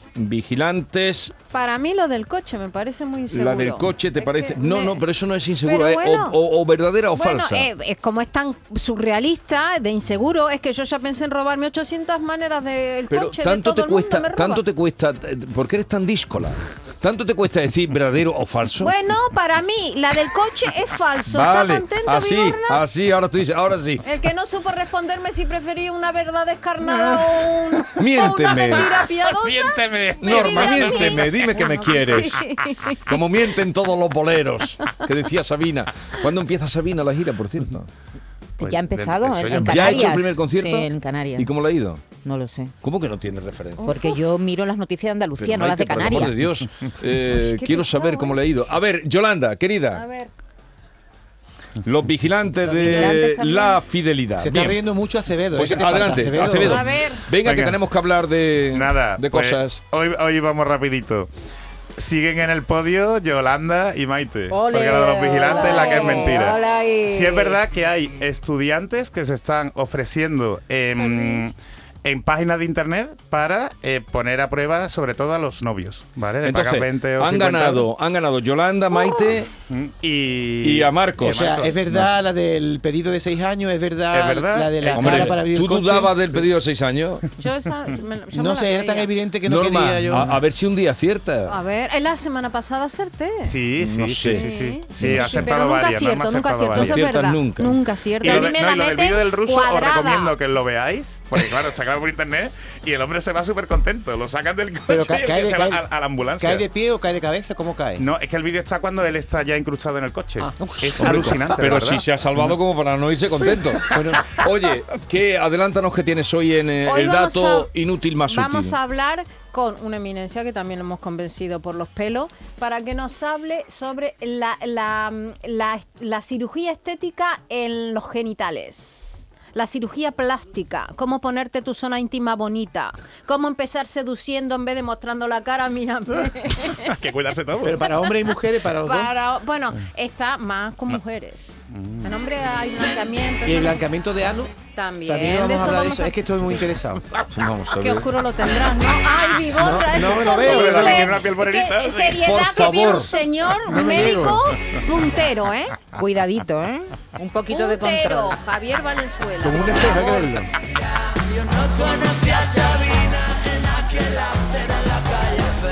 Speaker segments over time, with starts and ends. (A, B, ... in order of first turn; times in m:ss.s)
0:00.1-0:01.3 A
0:01.5-0:05.0 B
0:03.3-0:07.7 A
0:05.6-0:06.4 B
0:07.1-0:14.6 B
0:13.1-0:18.9 A
0:18.8-0:22.8 B
0:21.3-0:24.0 A
0:24.0-0:33.4 B
0:26.8-0:31.2 C
0:28.0-0:28.9 A
0:30.2-0:37.9 A
0:38.6-0:40.2 C
0:38.6-0:41.6 D
0:39.6-0:42.0 A
0:42.2-0:42.7 D
0:42.8-0:44.0 A
0:43.8-0:44.2 B
0:43.8-0:46.4 D
0:45.4-0:50.0 A
0:47.2-0:48.5 B
0:49.9-0:50.3 B
0:51.8-0:54.8 A
0:52.6-0:53.8 D
0:52.8-0:53.2 B
0:54.4-0:56.9 E
0:55.5-0:59.8 A
0:56.5-0:57.3 B
0:57.4-0:57.8 C
0:58.7-1:01.3 C
1:02.0-1:17.9 C
1:04.5-1:07.6 D
1:04.7-1:06.6 B
1:11.0-1:11.4 B
1:16.4-1:19.5 A
1:18.9-1:19.4 B
1:19.6-1:21.8 C
1:20.6-1:22.1 A
1:21.2-1:26.5 E
1:24.1-1:25.4 C
1:24.9-1:27.3 A
1:27.4-1:29.1 B
1:28.3-1:30.3 E
1:29.4-1:31.6 A
1:30.1-1:30.4 C
1:31.4-1:33.6 B
1:33.4-1:37.0 C
1:33.8-1:35.5 A
1:34.3-1:40.4 B
1:36.7-1:37.9 A
1:38.2-1:46.6 C
1:44.9-1:48.0 E
1:48.0-1:52.0 C
1:50.6-1:51.2 D
1:50.8-1:58.8 A
1:53.9-1:54.3 E
1:56.8-1:57.7 B
1:58.2-2:17.1 B
2:16.8-2:17.8 C
2:17.6-2:19.1 E
2:18.8-2:23.8 B
2:21.7-2:22.1 C
2:23.4-2:27.1 E
2:24.7-2:26.6 B
2:27.3-2:28.1 A
2:27.7-2:35.9 B
2:29.6-2:31.1 E
2:29.9-2:31.1 A
2:30.4-2:32.2 C
2:32.1-2:33.2 A
2:33.7-2:34.4 E
2:35.9-2:38.4 D
2:37.5-2:40.4 B
2:39.4-2:40.5 E
2:41.6-2:43.2 B
2:44.0-2:45.5 B